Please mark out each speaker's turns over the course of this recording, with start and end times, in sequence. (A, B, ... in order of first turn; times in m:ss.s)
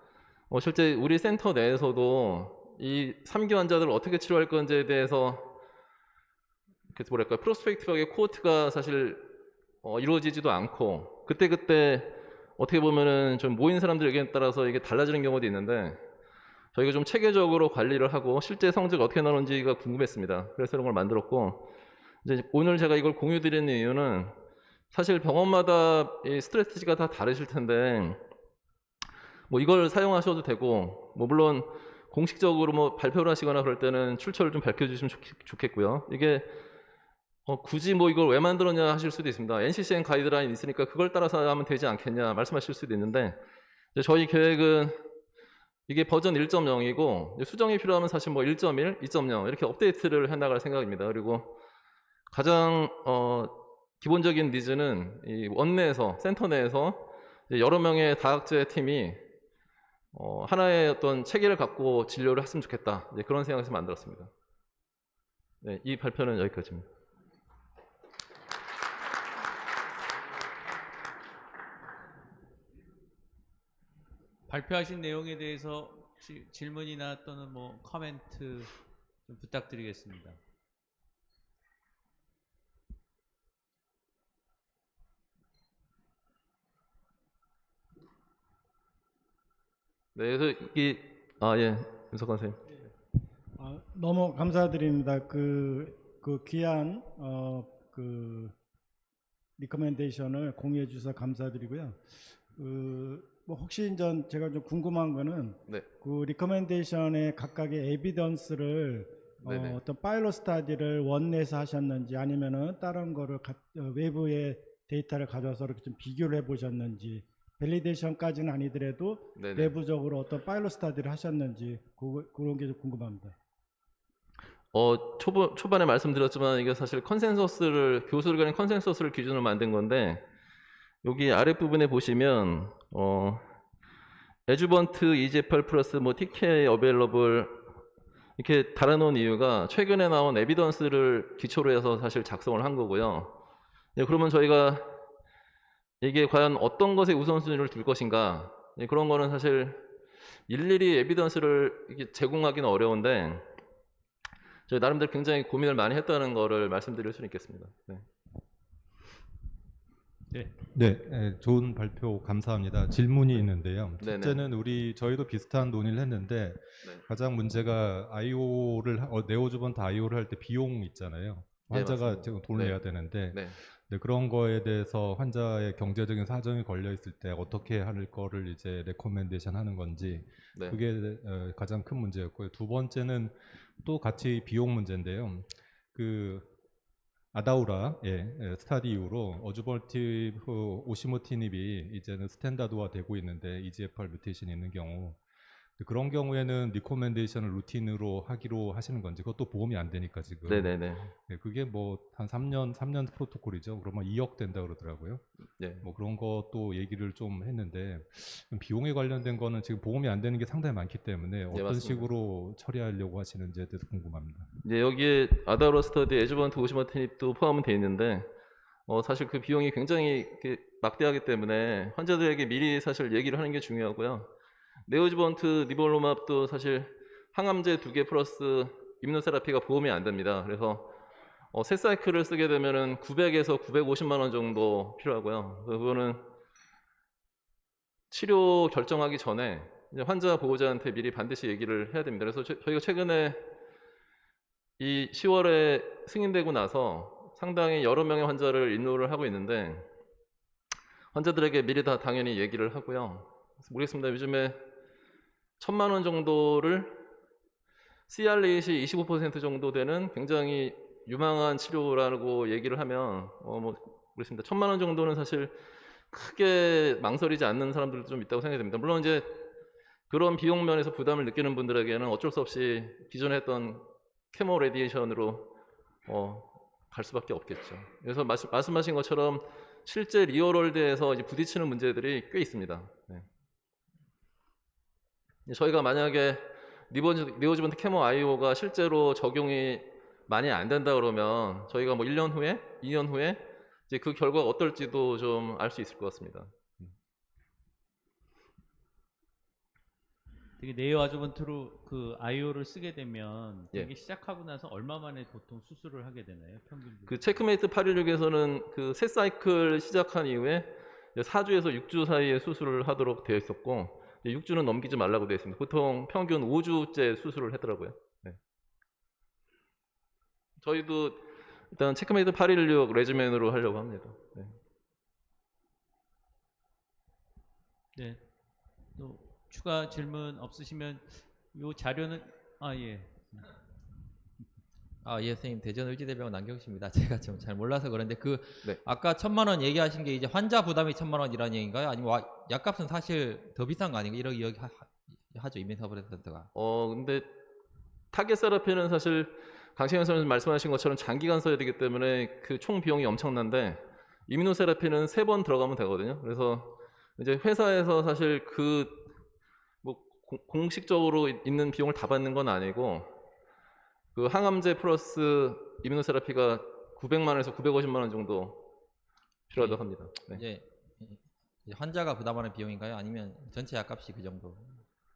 0:00.5-0:05.5 A
0:06.9-0:09.3 A
0:09.8-0:16.0 A
0:16.7-0:21.7 A
0:22.2-0:24.3 A
0:24.9-0:28.2 A
0:29.5-0:36.5 A
0:37.4-0:43.4 A
0:43.9-0:45.0 A
0:45.9-0:51.6 A
0:52.3-0:59.2 A
1:00.1-1:04.3 A
1:05.6-1:06.8 A
1:14.5-1:18.7 B
1:19.2-1:20.4 B
1:30.1-1:32.6 A
1:33.6-1:38.5 C
1:39.6-1:42.0 C
1:42.6-2:03.3 C
1:49.4-1:49.8 A
1:59.4-1:59.7 A
2:04.7-2:10.2 A
2:11.0-2:13.4 A
2:14.5-2:17.6 A
2:18.4-2:23.4 A
2:24.0-2:24.8 A
2:26.0-2:29.8 A
2:30.5-2:33.5 A
2:34.7-2:38.0 A
2:40.3-2:40.5 B
2:40.7-3:06.5 D
2:44.0-2:44.4 A
2:51.7-2:52.8 A
2:53.3-2:53.6 A
3:00.5-3:00.8 A
3:07.3-3:15.2 D
3:15.8-3:20.7 D
3:20.5-3:21.1 A
3:21.2-3:25.2 D
3:25.6-3:25.8 A
3:25.8-3:34.5 D
3:31.5-3:32.1 A
3:34.6-3:38.3 A
3:38.9-3:44.3 A
3:44.9-3:50.9 A
3:51.5-3:56.2 A
3:58.1-4:03.4 A
4:04.8-4:09.9 A
4:11.1-4:14.6 A
4:15.6-4:17.0 A
4:18.1-4:25.6 A
4:26.1-4:29.5 A
4:30.1-4:35.5 A
4:36.1-4:43.2 A
4:45.5-4:56.6 A
5:00.6-5:07.3 B
5:07.1-5:18.4 A
5:20.6-5:24.5 A
5:28.0-5:28.2 B
5:28.9-5:33.2 B
5:35.0-5:46.5 E
5:46.5-5:47.3 A
5:48.1-5:59.1 A
5:59.8-6:03.1 A
6:04.1-6:08.6 A
6:09.5-6:10.4 A
6:09.6-6:09.8 E
6:10.3-6:14.8 E